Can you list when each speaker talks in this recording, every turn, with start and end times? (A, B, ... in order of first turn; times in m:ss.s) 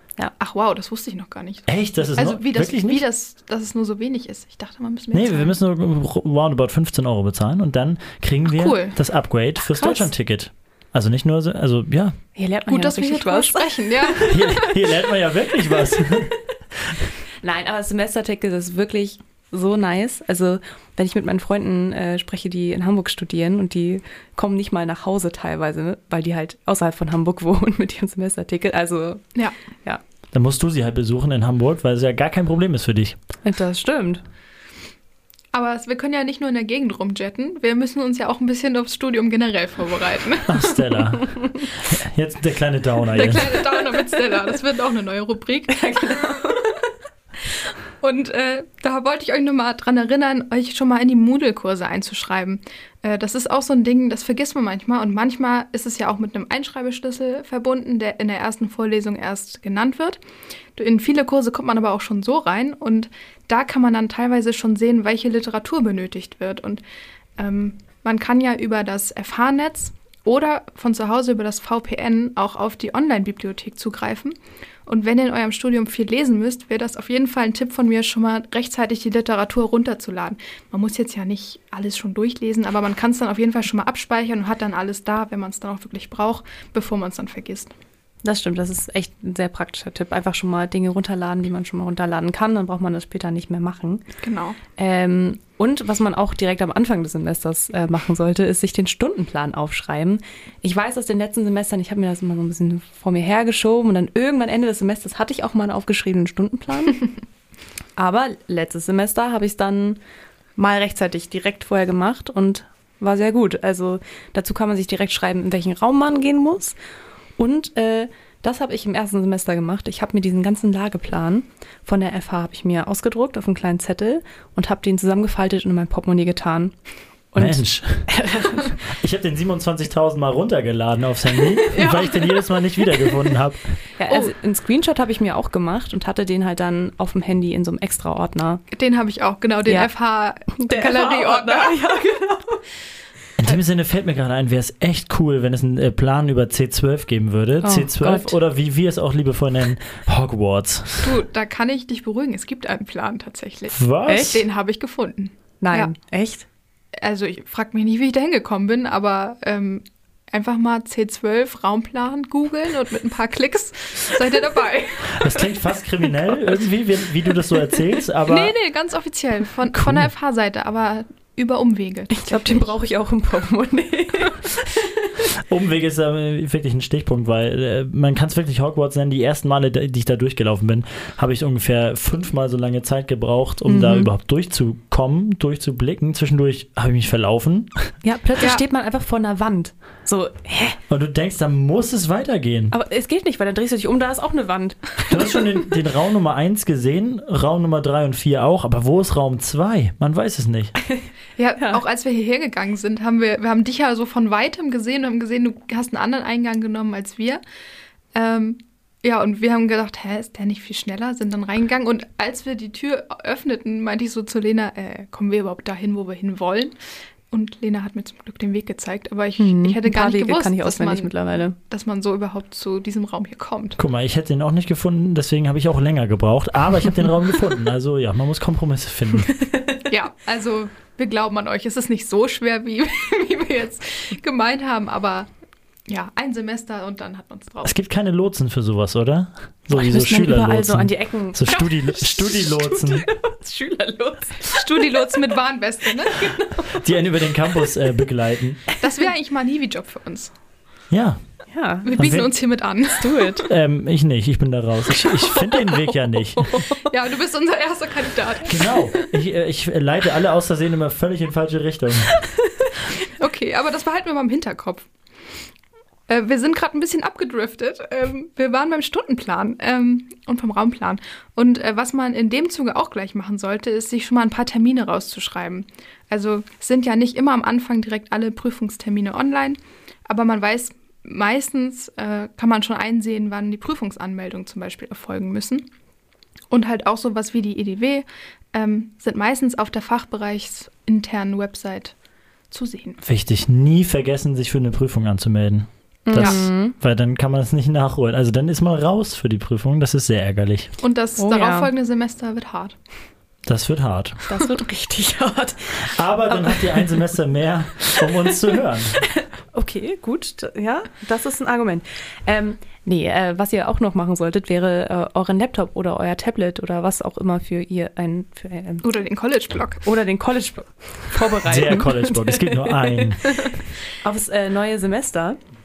0:00.4-0:05.6 A
0:01.7-0:03.0 B
0:05.1-0:12.2 B
0:08.5-0:09.0 A
0:12.4-0:14.2 C
0:12.7-0:14.8 A
0:14.2-0:16.4 B
0:17.4-0:29.2 C
0:30.3-0:33.2 B
0:33.4-0:34.2 C
0:35.5-0:40.8 A
0:40.5-0:43.6 B
0:43.1-0:46.6 A
0:45.7-0:46.8 C
0:48.0-1:00.2 A
1:00.8-1:06.8 A
1:07.4-1:27.7 A
1:28.2-1:34.0 C
1:34.2-1:34.6 A
1:34.8-1:47.1 C
1:48.0-1:50.0 C
1:50.6-1:56.8 C
1:57.4-2:06.7 C
2:07.3-2:08.8 C
2:07.4-2:08.1 B
2:08.8-2:13.8 B
2:11.7-2:12.5 C
2:14.0-2:18.6 C
2:18.7-2:21.8 A
2:19.6-2:19.9 C
2:20.6-2:22.6 C
2:23.4-2:31.2 B
2:27.6-2:28.4 C
2:31.0-2:35.9 A
2:33.7-2:34.3 B
2:34.1-2:34.4 C
2:35.6-2:36.4 C
2:37.0-2:45.5 A
2:45.1-2:48.5 B
2:48.3-2:52.7 A
2:49.8-2:50.1 B
2:52.1-2:55.3 C
2:55.4-3:07.9 B
3:03.6-3:04.1 C
3:08.0-3:10.8 C
3:08.4-3:08.7 A
3:10.9-3:12.7 B
3:12.7-3:15.7 C
3:15.1-3:20.7 B
3:21.4-3:27.4 A
3:28.1-3:36.7 A
3:37.3-3:43.8 A
3:39.4-3:41.6 C
3:43.8-3:49.3 B
3:49.3-3:49.6 C
3:49.9-3:55.3 A
3:55.9-3:57.8 A
3:57.6-4:03.0 B
3:59.7-4:05.3 C
4:04.5-4:06.3 A
4:06.0-4:06.8 C
4:06.7-4:08.6 B
4:08.8-4:10.3 A
4:10.9-4:11.2 B
4:11.5-4:12.2 C
4:11.8-4:13.4 A
4:12.0-4:12.3 B
4:13.0-4:13.5 C
4:13.5-4:16.5 B
4:15.0-4:16.8 C
4:16.8-4:18.9 A
4:18.4-4:22.1 B
4:23.0-4:24.9 A
4:26.1-4:45.7 A
4:46.5-4:51.9 A
4:52.5-4:53.0 A
4:53.0-5:00.7 B
4:56.1-4:56.7 C
4:56.1-4:56.4 A
5:00.8-5:02.8 A
5:01.2-5:01.7 C
5:03.4-5:04.2 B
5:04.2-5:07.1 C
5:05.9-5:09.0 B
5:08.0-5:18.8 C
5:18.8-5:19.8 A
5:19.8-5:25.4 C
5:21.4-5:23.4 B